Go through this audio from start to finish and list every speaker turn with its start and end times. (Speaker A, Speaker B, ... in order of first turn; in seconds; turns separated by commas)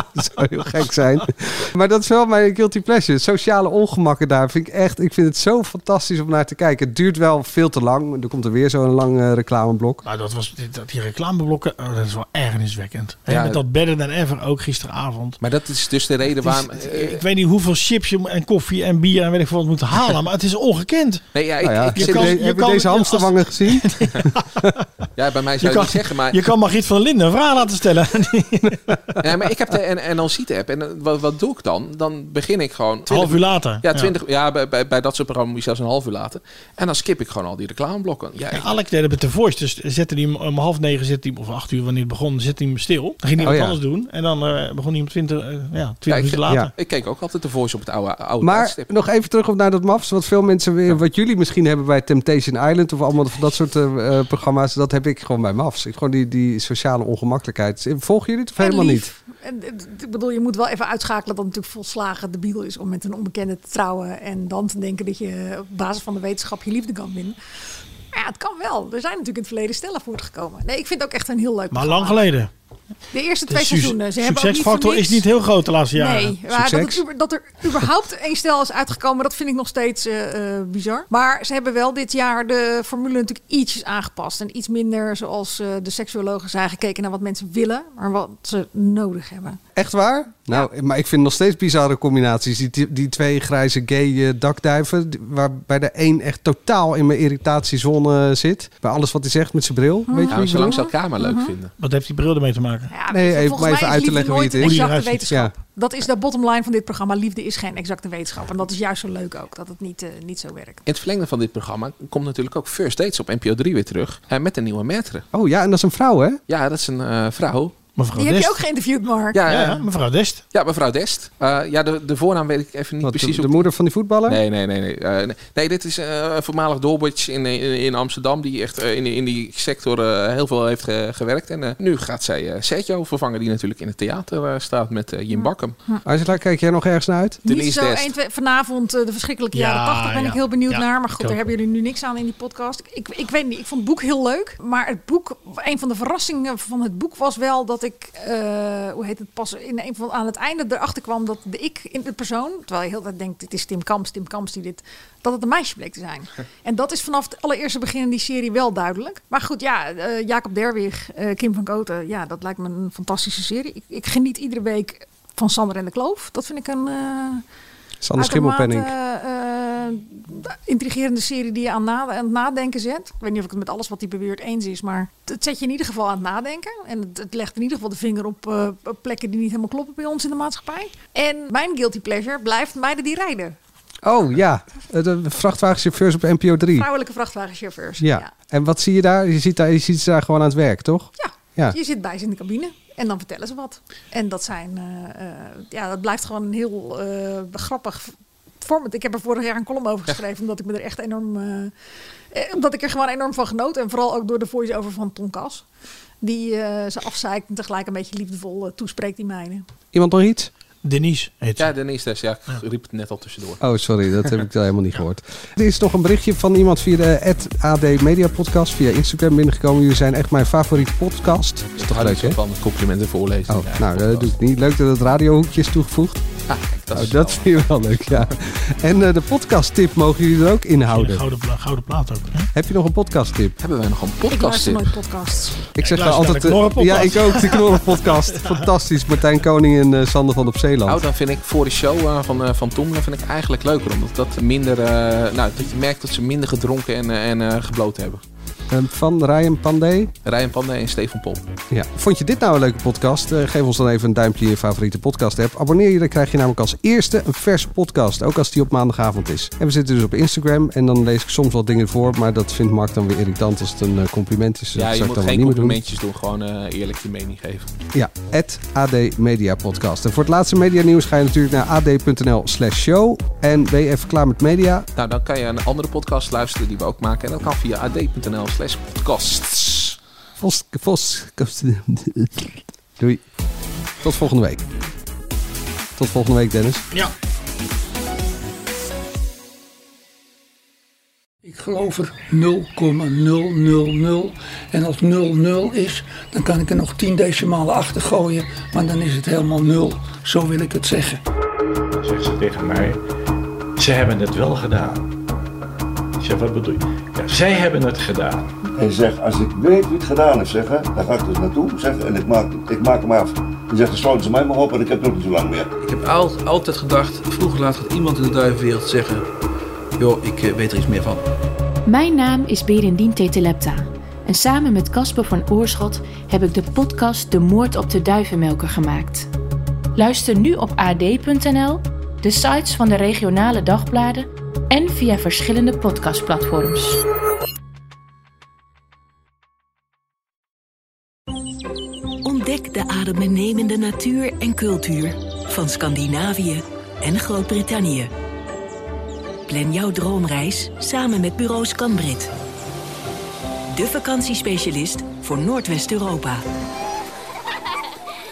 Speaker A: 0.1-10.0, Speaker B: 10.0-15.4, Speaker C: 13.3-13.6, Speaker C: 15.4-17.2, Speaker B: 16.4-21.2, Speaker C: 21.3-22.4, Speaker A: 21.6-24.1, Speaker B: 21.9-24.8, Speaker C: 25.1-26.5, Speaker B: 25.6-29.1, Speaker C: 29.2-38.7, Speaker B: 33.1-34.1, Speaker B: 38.5-46.7, Speaker A: 43.4-43.8, Speaker C: 46.1-48.9, Speaker A: 48.4-59.1, Speaker D: 58.6-67.3, Speaker D: 68.1-72.2, Speaker B: 71.7-72.5, Speaker D: 73.1-75.2, Speaker B: 73.5-76.4, Speaker D: 75.9-89.6, Speaker A: 76.5-77.0, Speaker A: 89.7-100.6, Speaker D: 100.1-101.5, Speaker C: 100.3-101.7, Speaker B: 101.8-102.9, Speaker D: 102.9-110.8, Speaker A: 103.1-105.5, Speaker B: 104.6-105.3, Speaker C: 110.9-115.2, Speaker A: 115.3-116.4, Speaker C: 116.5-117.8, Speaker B: 118.0-118.6, Speaker D: 118.1-119.4, Speaker C: 119.3-119.8, Speaker B: 119.4-120.4, Speaker C: 120.5-123.7, Speaker A: 123.0-124.4, Speaker C: 124.2-135.8, Speaker D: 135.3-136.0, Speaker A: 136.0-137.4, Speaker D: 137.4-167.4, Speaker C: 137.4-138.1, Speaker B: 139.5-141.5, Speaker A: 168.0-168.9, Speaker D: 168.2-183.6, Speaker A: 184.0-186.9, Speaker D: 186.7-188.3, Speaker A: 188.0-191.8, Speaker D: 191.2-201.7, Speaker D: 202.3-205.6, Speaker D: 206.2-209.6, Speaker A: 209.9-210.5, Speaker B: 210.8-211.7, Speaker C: 211.6-213.6, Speaker A: 213.6-222.4, Speaker C: 221.8-224.3, Speaker A: 223.5-226.2, Speaker C: 226.5-227.7, Speaker A: 226.9-231.2, Speaker B: 230.9-232.5, Speaker A: 232.5-233.5, Speaker C: 233.6-234.9, Speaker D: 234.3-235.6, Speaker A: 235.8-241.0, Speaker B: 235.8-238.5, Speaker C: 240.8-248.2, Speaker A: 248.7-250.1, Speaker C: 250.2-251.5, Speaker A: 251.7-265.8, Speaker C: 264.7-267.7, Speaker A: 267.9-274.9, Speaker C: 274.9-280.0, Speaker A: 280.4-283.2, Speaker A: 284.0-284.6, Speaker A: 285.9-286.8, Speaker E: 291.4-301.2, Speaker F: 301.9-303.0, Speaker F: 303.8-305.1, Speaker F: 306.2-308.5, Speaker G: 308.8-315.7, Speaker H: 315.8-319.2, Speaker H: 320.0-321.2, Speaker I: 321.9-329.3, Speaker I: 329.9-337.0, Speaker J: 342.2-348.1, Speaker J: 349.5-352.3, Speaker J: 353.7-356.4